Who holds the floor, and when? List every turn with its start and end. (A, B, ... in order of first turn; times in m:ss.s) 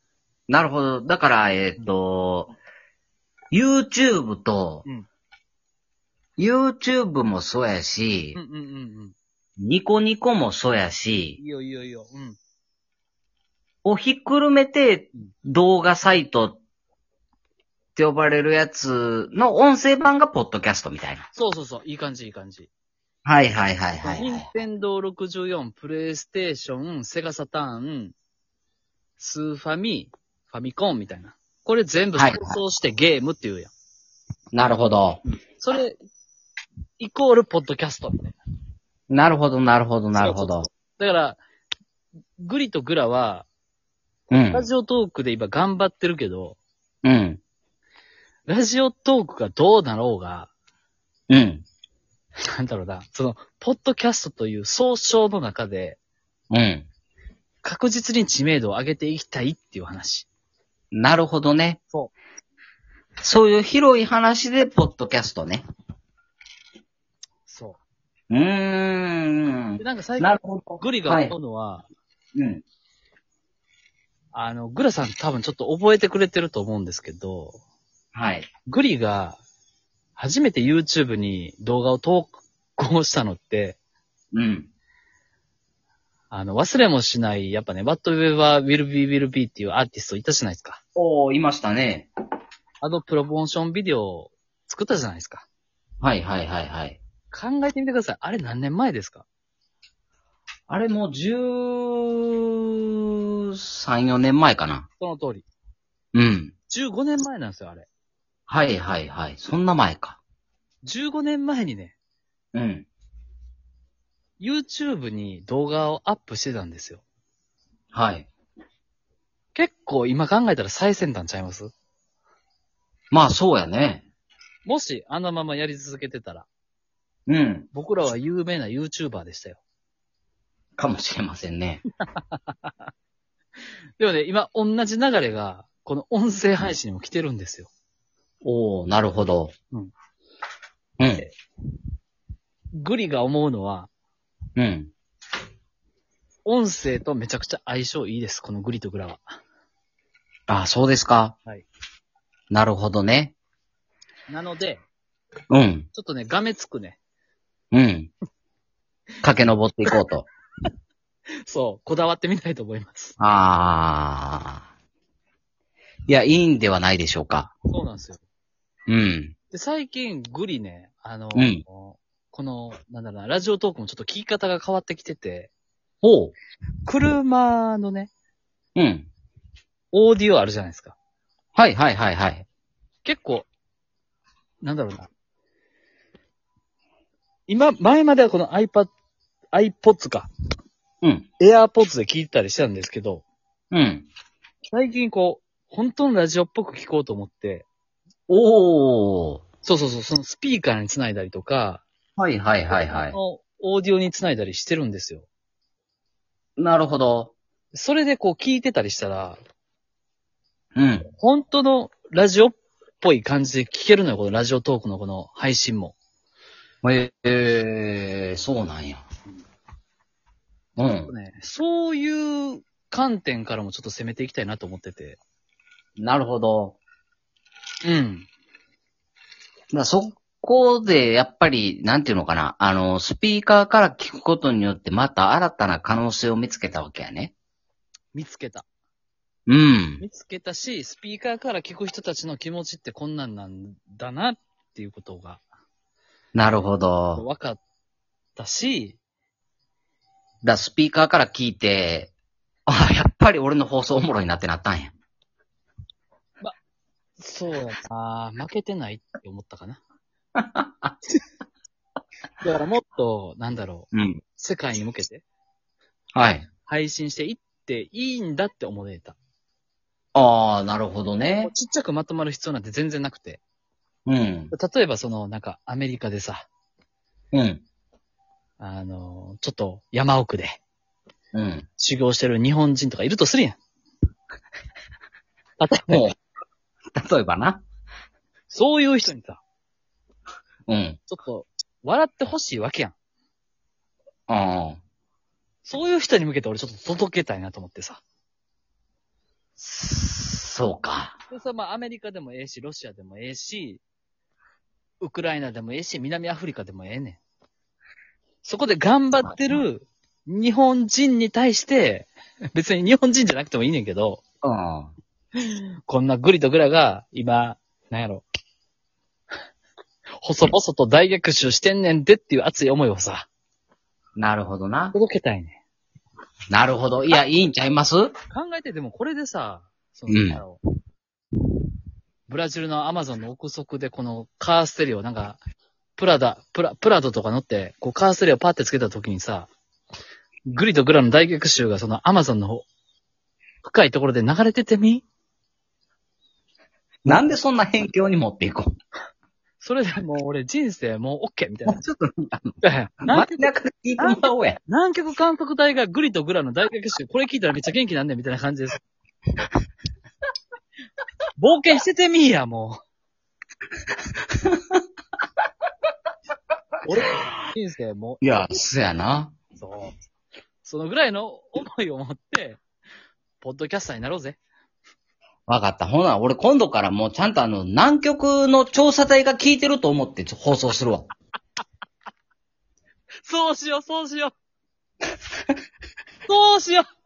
0:00.5-0:02.5 A
0:03.5-0:04.8 A
0:06.4-0:08.4 A
0:08.3-0:09.1 B
0:09.6-0:11.4 A
0:11.4-0:12.4 B
0:13.8-0:16.6 A
0:17.9-0:21.3 A
0:21.3-0:22.7 B
0:23.2-0:24.5 A
0:24.0-0:28.1 B
0:29.2-0:33.7 B
0:32.1-0:32.6 A
0:34.5-0:35.2 A
0:35.6-0:36.0 B
0:37.0-0:38.4 B
0:39.1-0:40.7 A
0:40.2-0:41.4 B
0:42.4-0:43.5 B
0:44.3-0:44.7 A
0:44.3-0:46.6 B
0:47.0-0:47.4 A
0:48.5-0:50.5 B
0:51.3-0:51.6 A
0:52.5-0:56.0 B
0:56.5-0:56.9 A
0:57.6-1:00.3 B
1:00.9-1:01.8 A
1:03.2-1:05.6 A
1:07.5-1:07.8 B
1:08.3-1:11.3 A
1:09.8-1:11.9 B
1:12.4-1:12.6 A
1:14.3-1:17.6 B
1:18.1-1:18.5 A
1:18.6-1:19.4 B
1:20.2-1:23.8 B
1:24.3-1:24.7 A
1:26.3-1:30.8 B
1:30.9-1:32.1 A
1:32.8-1:35.4 B
1:36.0-1:37.0 A
1:37.3-1:39.2 B
1:40.7-1:44.9 A
1:45.0-1:45.4 B
1:46.1-1:46.5 A
1:46.7-1:47.9 B
1:48.5-1:50.2 A
1:50.8-1:51.9 B
1:52.5-1:52.9 A
1:54.4-1:57.0 B
1:57.9-1:58.3 A
1:59.5-2:01.7 B
2:03.1-2:04.0 A
2:04.6-2:06.5 B
2:07.3-2:07.7 A
2:07.7-2:09.6 B
2:10.8-2:11.8 A
2:12.2-2:12.7 B
2:14.0-2:17.7 B
2:18.4-2:19.5 A
2:21.0-2:21.3 A
2:22.8-2:23.9 B
2:24.6-2:24.9 A
2:26.4-2:29.3 B
2:30.5-2:31.4 A
2:32.5-2:33.3 A
2:34.3-2:34.8 B
2:35.5-2:35.9 A
2:35.9-2:37.0 B
2:37.7-2:38.1 A
2:39.2-2:40.3 A
2:41.4-2:43.1 B
2:43.2-2:44.6 A
2:46.1-2:47.5 A
2:47.7-2:48.2 B
2:48.9-2:49.3 A
2:49.5-2:55.5 B
2:51.3-2:51.6 A
2:56.0-2:56.3 A
2:56.8-2:58.1 B
2:58.8-2:59.1 A
2:59.9-3:00.9 B
3:01.5-3:02.4 A
3:03.0-3:03.5 B
3:04.6-3:05.1 B
3:07.5-3:08.9 B
3:09.5-3:10.3 B
3:11.0-3:11.3 A
3:11.4-3:13.2 B
3:13.7-3:14.1 A
3:14.6-3:17.7 B
3:18.3-3:19.4 A
3:19.6-3:21.8 B
3:22.2-3:23.2 A
3:22.7-3:25.2 B
3:26.6-3:27.3 A
3:27.7-3:29.4 B
3:30.8-3:31.1 A
3:31.2-3:35.9 B
3:36.8-3:39.0 A
3:40.8-3:41.1 A
3:41.1-3:45.2 B
3:46.0-3:46.8 A
3:47.8-3:48.3 B
3:49.7-3:57.3 A
3:58.1-3:58.7 B
3:59.5-4:00.0 A
4:00.0-4:05.4 B
4:06.3-4:07.2 A
4:07.2-4:07.6 B
4:08.4-4:09.0 B
4:10.4-4:12.1 A
4:12.7-4:14.9 A
4:17.2-4:19.8 B
4:20.4-4:20.9 A
4:22.4-4:25.2 B
4:23.9-4:24.2 A
4:26.1-4:26.5 A
4:26.7-4:29.2 B
4:30.1-4:31.5 A
4:31.4-4:33.4 B
4:34.1-4:34.5 A
4:34.5-4:36.5 B
4:37.3-4:37.6 A
4:38.6-4:40.6 B
4:41.3-4:41.7 A
4:41.8-4:43.6 B
4:45.6-4:46.0 B
4:45.9-4:46.2 A
4:46.9-4:47.6 A
4:48.5-4:49.4 B
4:50.7-4:51.0 A
4:51.1-4:52.9 B
4:54.3-4:54.8 A
4:55.6-4:58.0 B
4:59.6-5:01.2 A
5:01.3-5:03.8 B
5:05.0-5:07.2 B
5:08.4-5:14.2 B
5:14.4-5:14.9 A
5:15.4-5:18.2 B
5:20.2-5:23.3 B
5:24.2-5:25.0 A
5:24.9-5:25.6 B
5:26.5-5:28.1 A
5:28.3-5:30.6 B
5:30.1-5:30.4 A
5:32.3-5:35.4 B
5:36.0-5:39.5 B
5:40.4-5:42.7 B
5:43.6-5:45.0 B
5:47.0-5:48.7 A
5:49.6-5:51.8 B
5:51.7-5:54.6 A
5:52.6-5:58.8 B
6:01.4-6:02.8 B
6:06.8-6:08.6 B
6:08.2-6:09.3 A
6:09.6-6:10.0 B
6:10.6-6:12.6 B
6:13.4-6:14.4 B
6:15.5-6:21.1 A
6:23.2-6:24.3 B
6:26.3-6:26.8 B